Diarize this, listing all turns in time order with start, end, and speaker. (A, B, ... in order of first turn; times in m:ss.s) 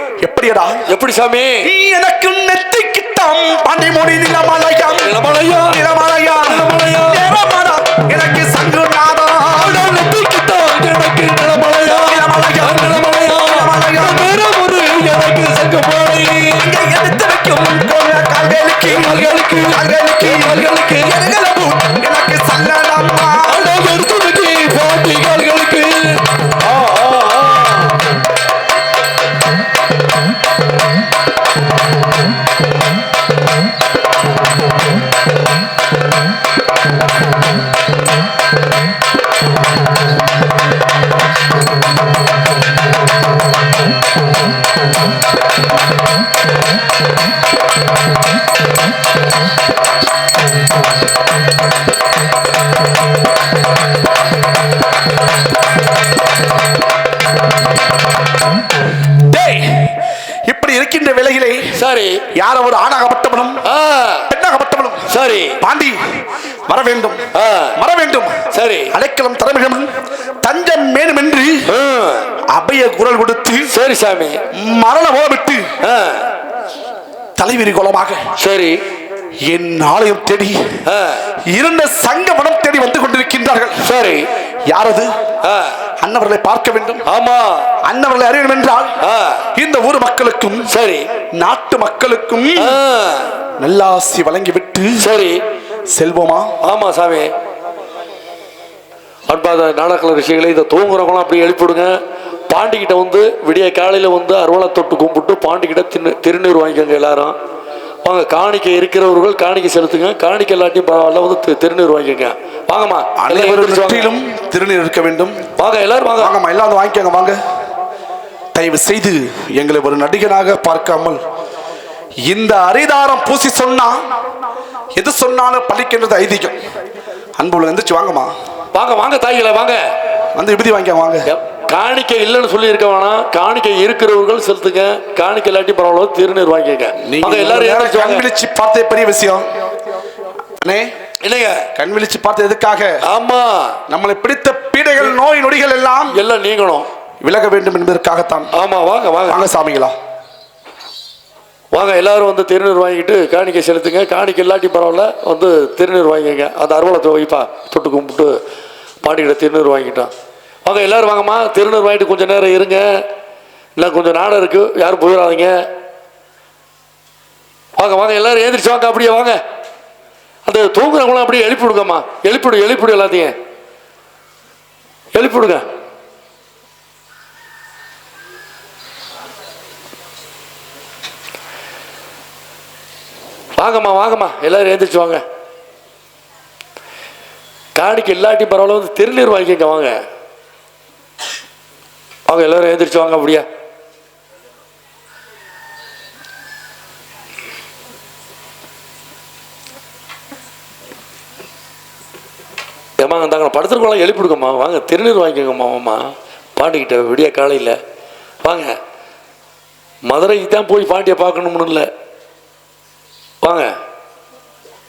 0:00.2-0:00.8 A
0:00.9-0:01.7 B
0:01.6-0:09.9 A
0:05.0-0:05.8 B
0:06.4-0:07.2 B
0:09.5-0:16.7 B
0:12.0-0:14.4 A
0:16.5-0:23.6 A
0:18.8-0:21.2 B
0:23.4-0:28.0 B
0:59.2-1:01.7 A
1:01.7-1:02.2 B
1:02.3-1:03.6 A
1:03.6-1:04.3 B
1:04.3-1:06.0 A
1:05.1-1:05.6 B
1:06.7-1:07.2 A
1:07.3-1:07.8 B
1:07.8-1:08.4 A
1:08.5-1:08.9 B
1:08.9-1:09.9 A
1:10.4-1:11.6 A
1:11.7-1:12.3 B
1:12.5-1:13.7 A
1:13.7-1:14.4 B
1:14.5-1:15.7 A
1:15.8-1:16.3 B
1:17.4-1:18.3 A
1:18.4-1:18.8 B
1:19.4-1:20.6 A
1:20.8-1:21.3 B
1:21.4-1:23.8 A
1:23.8-1:24.3 B
1:24.7-1:25.1 A
1:25.4-1:25.8 B
1:26.0-1:27.0 A
1:27.0-1:27.7 B
1:27.8-1:29.0 A
1:29.0-1:29.4 B
1:29.5-1:30.7 A
1:30.7-1:31.1 B
1:31.4-1:32.8 A
1:32.6-1:33.3 B
1:33.6-1:35.0 A
1:35.0-1:35.4 B
1:35.9-1:36.6 A
1:36.6-1:37.3 B
1:39.3-1:41.9 B
1:42.5-1:47.4 B
1:48.0-1:54.1 B
1:53.2-1:55.4 A
1:55.6-1:56.3 B
1:56.2-1:57.4 A
1:58.5-2:01.2 A
2:02.2-2:04.0 A
2:04.9-2:06.6 A
2:07.4-2:08.3 A
2:08.7-2:09.8 B
2:10.3-2:11.3 A
2:11.3-2:18.3 B
2:17.0-2:19.4 A
2:20.6-2:20.9 A
2:21.2-2:21.7 B
2:21.7-2:23.0 A
2:23.0-2:23.8 B
2:23.9-2:26.2 A
2:26.1-2:26.9 B
2:27.2-2:28.5 A
2:28.5-2:29.4 B
2:29.2-2:29.9 A
2:31.7-2:38.4 B
2:39.0-2:40.1 B
2:40.6-2:43.0 B
2:43.8-2:45.6 B
2:47.8-2:49.4 B
2:50.4-2:53.3 B
2:55.1-2:55.6 B
3:03.6-3:05.2 B
3:07.7-3:10.0 B
3:12.2-3:13.4 B
3:23.0-3:27.8 B
3:28.4-3:28.8 B
3:30.1-3:31.9 B
3:33.4-3:33.7 B